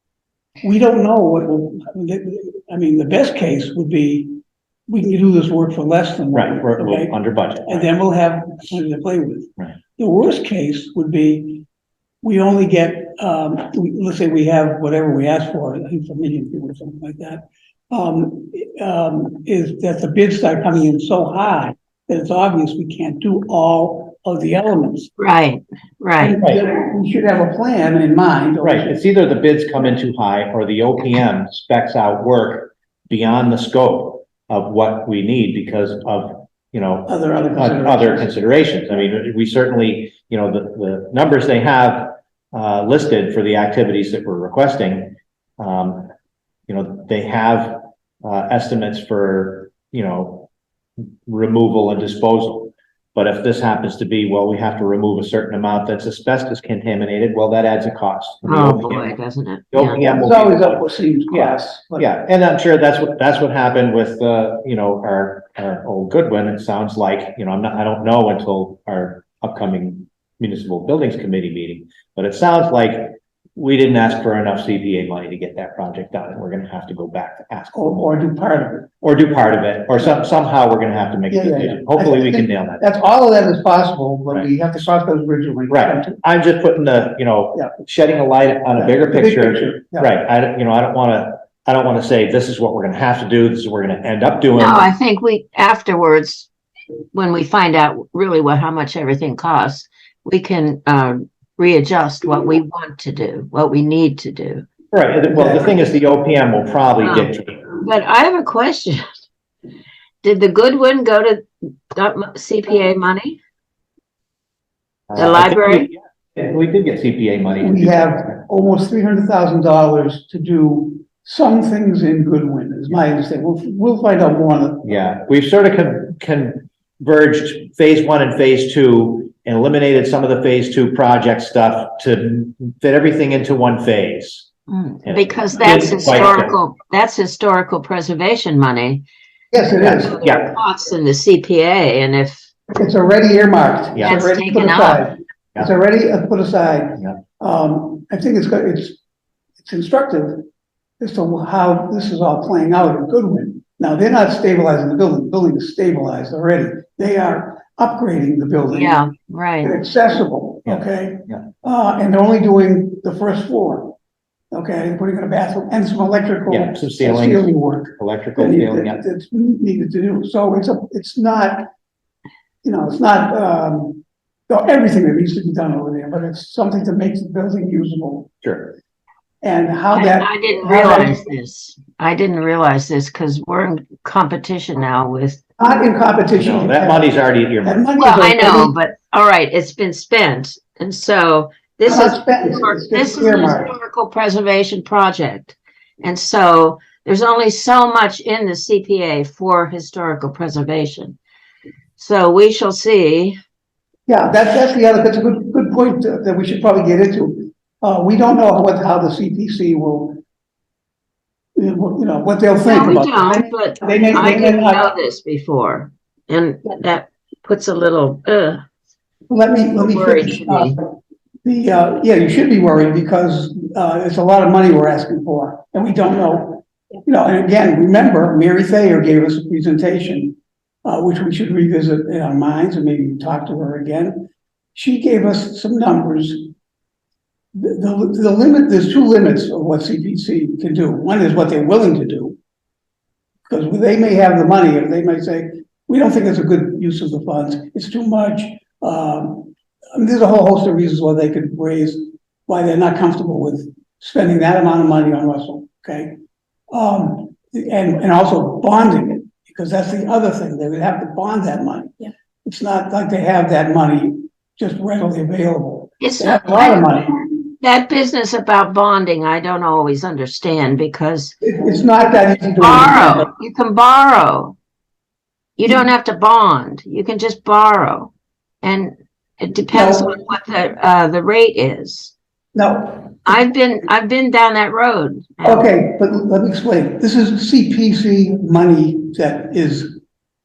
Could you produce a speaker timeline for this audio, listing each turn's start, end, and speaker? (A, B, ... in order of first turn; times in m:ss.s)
0:00.6-0:11.7 A
0:06.3-0:07.9 B
0:12.2-0:25.1 A
0:25.2-0:26.4 C
0:26.2-0:29.0 A
0:28.6-0:46.1 B
0:37.1-0:38.4 A
0:46.7-0:50.5 B
0:51.0-0:59.2 B
0:58.4-1:00.0 C
0:59.7-1:18.1 B
1:00.0-1:02.1 A
1:17.7-1:18.9 A
1:19.0-1:22.8 B
1:21.3-1:26.2 A
1:25.7-1:34.9 B
1:28.7-1:30.1 A
1:34.6-1:36.5 C
1:37.1-1:44.7 C
1:44.9-1:47.6 B
1:47.0-1:49.3 C
1:50.2-1:53.4 C
1:55.1-1:58.3 B
1:55.2-1:55.9 C
1:57.6-2:05.0 A
2:04.8-2:14.5 B
2:14.7-2:19.0 C
2:15.0-2:16.5 B
2:15.6-2:16.3 A
2:19.5-2:20.2 A
2:19.8-2:20.5 B
2:20.0-2:22.5 C
2:22.7-2:29.0 A
2:23.9-2:24.2 B
2:24.0-2:25.1 C
2:29.6-2:30.5 A
2:31.0-2:44.0 A
2:38.7-2:39.8 C
2:40.7-2:41.5 B
2:44.5-2:51.7 A
2:46.5-2:49.0 B
2:52.6-2:58.3 A
2:58.4-2:58.8 B
2:59.4-3:01.2 A
2:59.9-3:05.4 C
3:05.6-3:08.7 A
3:06.4-3:07.8 B
3:08.0-3:21.2 C
3:11.8-3:13.7 A
3:22.0-3:23.4 C
3:24.1-3:30.2 A
3:31.6-3:34.9 A
3:32.6-3:38.6 C
3:39.3-3:56.5 A
3:39.8-3:40.8 C
3:57.6-4:02.4 A
4:03.5-4:16.2 A
4:16.7-4:27.2 A
4:26.0-4:31.4 C
4:31.4-4:33.3 A
4:32.6-4:34.6 C
4:35.6-4:42.1 C
4:39.7-4:40.1 A
4:42.6-4:43.2 A
4:43.2-4:45.7 C
4:45.4-4:50.0 A